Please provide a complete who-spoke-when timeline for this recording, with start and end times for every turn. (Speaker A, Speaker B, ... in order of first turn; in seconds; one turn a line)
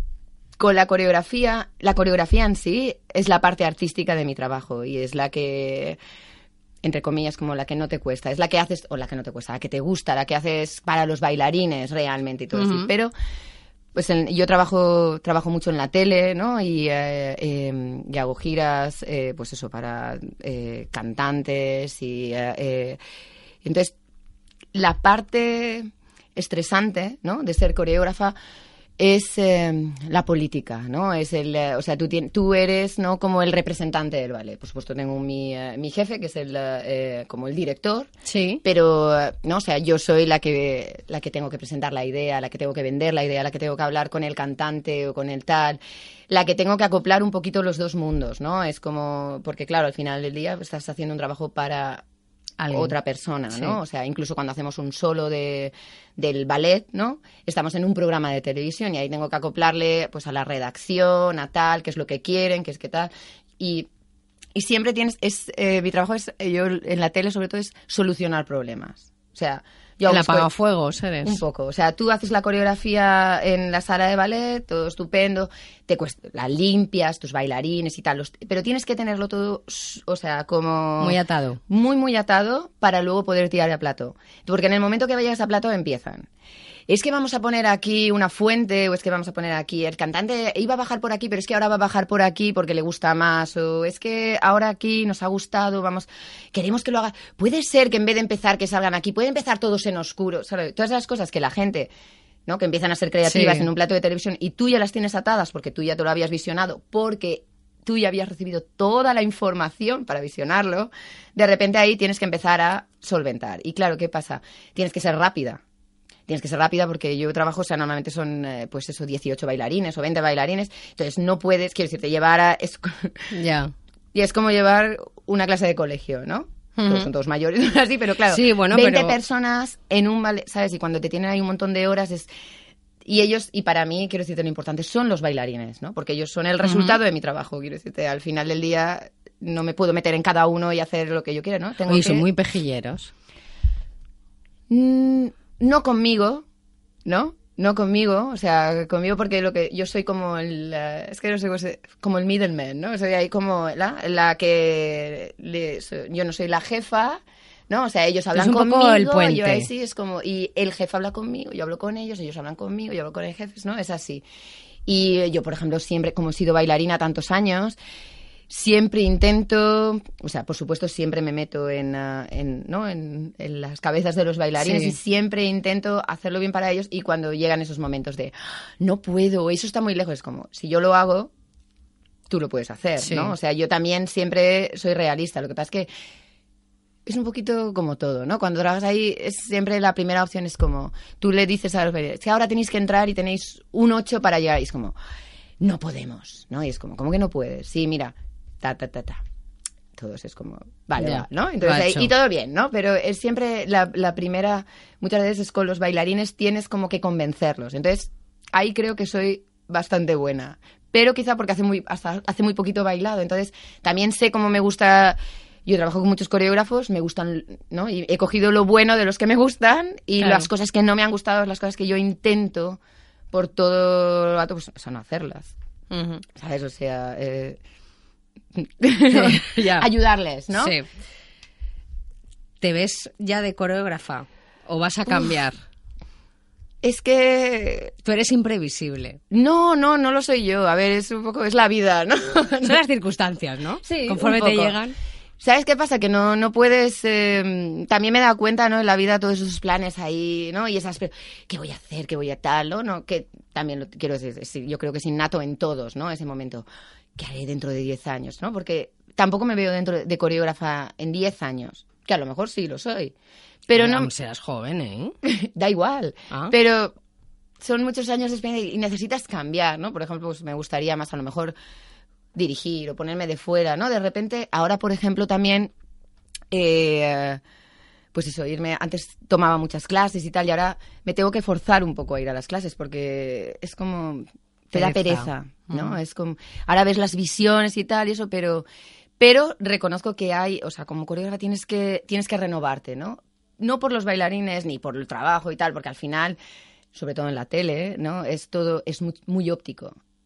Speaker A: 0.6-6.0
Speaker A: 6.8-13.1
Speaker B: 12.5-12.9
Speaker A: 13.9-23.0
Speaker A: 23.6-23.9
Speaker A: 24.8-28.4
Speaker A: 29.0-38.1
Speaker B: 38.2-38.6
Speaker A: 38.6-45.8
Speaker A: 46.3-52.0
Speaker B: 52.6-52.9
Speaker A: 52.7-63.9
Speaker A: 64.6-70.5
Speaker B: 70.1-71.4
Speaker A: 71.2-86.3
Speaker B: 81.0-81.6
Speaker A: 86.9-101.9
Speaker A: 102.5-115.6
Speaker B: 103.3-103.7
Speaker A: 116.3-123.3
Speaker B: 123.3-123.7
Speaker A: 124.1-132.3
Speaker B: 126.8-127.1
Speaker B: 128.3-129.2
Speaker A: 133.1-142.3
Speaker B: 136.6-137.0
Speaker B: 141.9-143.1
Speaker A: 144.7-146.4
Speaker A: 147.1-164.2
Speaker B: 158.3-159.7
Speaker A: 164.9-167.8
Speaker A: 168.5-181.3
Speaker B: 174.6-175.0
Speaker A: 182.3-185.9
Speaker B: 183.0-183.3
Speaker A: 187.1-195.0
Speaker A: 195.6-199.2
Speaker A: 200.0-222.8
Speaker B: 201.0-202.1
Speaker B: 220.2-220.5
Speaker A: 223.3-225.6
Speaker B: 225.9-226.2
Speaker A: 226.3-227.6
Speaker A: 228.6-230.8
Speaker B: 229.1-229.9
Speaker B: 230.5-230.9
Speaker B: 232.6-235.6
Speaker A: 236.8-237.9
Speaker B: 238.1-239.2
Speaker A: 239.3-242.8
Speaker B: 242.6-244.9
Speaker A: 243.8-244.8
Speaker A: 245.4-256.6
Speaker A: 257.2-263.1
Speaker A: 263.7-264.1
Speaker B: 263.8-265.1
Speaker A: 265.2-266.9
Speaker A: 267.6-271.5
Speaker A: 272.4-275.7
Speaker A: 276.5-277.4
Speaker A: 278.1-288.6
Speaker B: 284.7-286.0
Speaker A: 289.2-296.4
Speaker A: 296.9-299.9